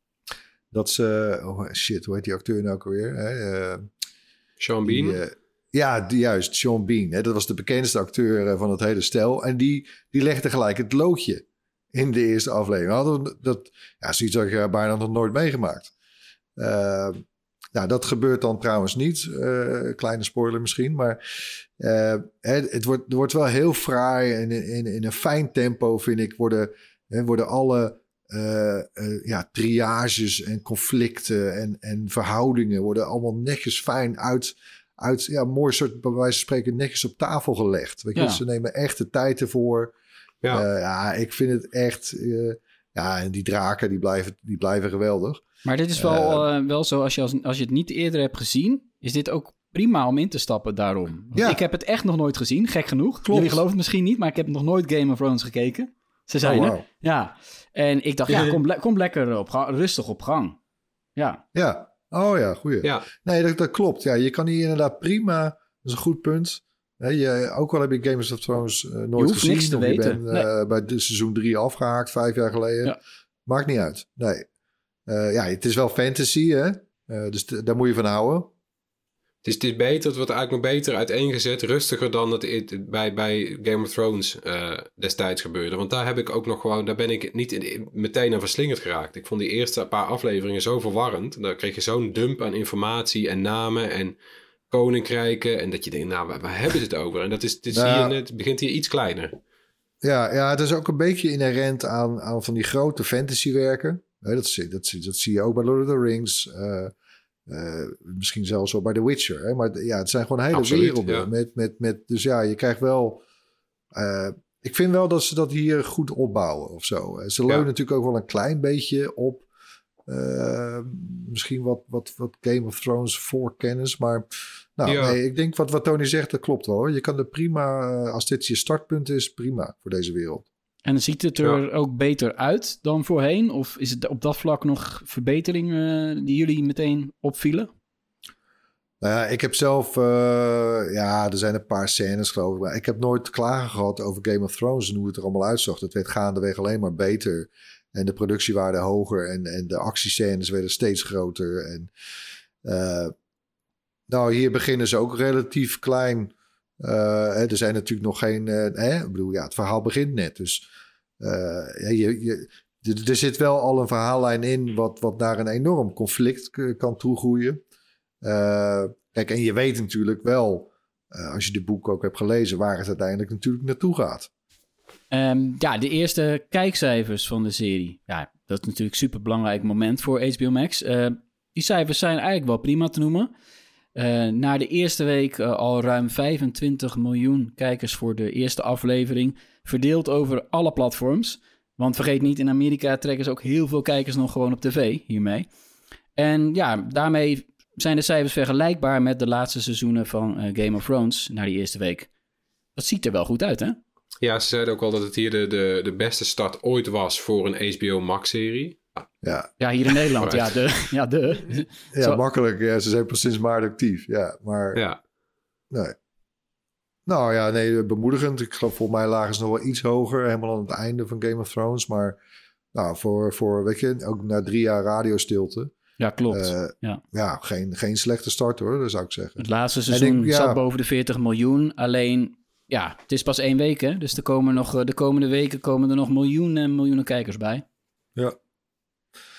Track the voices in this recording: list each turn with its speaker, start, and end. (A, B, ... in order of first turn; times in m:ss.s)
0:00.7-0:03.9 A
0:04.6-0:05.2 B
0:04.8-0:15.9 A
0:16.6-0:17.2 A
0:17.7-0:39.9 A
0:38.2-0:38.4 C
0:40.5-0:45.4 A
0:45.6-1:00.6 C
0:45.9-0:46.4 A
0:51.3-0:51.6 A
0:53.3-0:53.6 A
0:56.4-0:56.8 A
1:01.2-1:01.4 C
1:01.5-1:14.4 A
1:09.2-1:10.5 C
1:15.1-1:18.5 A
1:19.4-1:34.2 B
1:34.7-1:39.4 B
1:37.7-1:38.1 A
1:40.0-1:46.9 A
1:47.5-1:53.2 A
1:50.5-1:51.3 B
1:53.9-1:59.4 A
2:00.1-2:10.4 A
2:04.8-2:05.2 B
2:10.8-2:17.7 C
2:19.0-2:31.9 A
2:32.6-2:33.1 A
2:34.1-2:40.6 A
2:41.2-2:47.6 A
2:48.2-2:54.3 A
2:55.1-3:03.3 C
3:03.9-3:15.5 C
3:16.2-3:22.1 C
3:22.8-3:23.8 C
3:24.2-3:29.0 B
3:29.2-3:29.5 A
3:29.6-3:32.2 C
3:30.2-3:30.5 B
3:31.9-3:34.8 A
3:37.0-3:42.2 A
3:42.7-3:45.7 A
3:46.0-3:47.0 C
3:46.3-3:50.6 A
3:49.4-3:57.6 C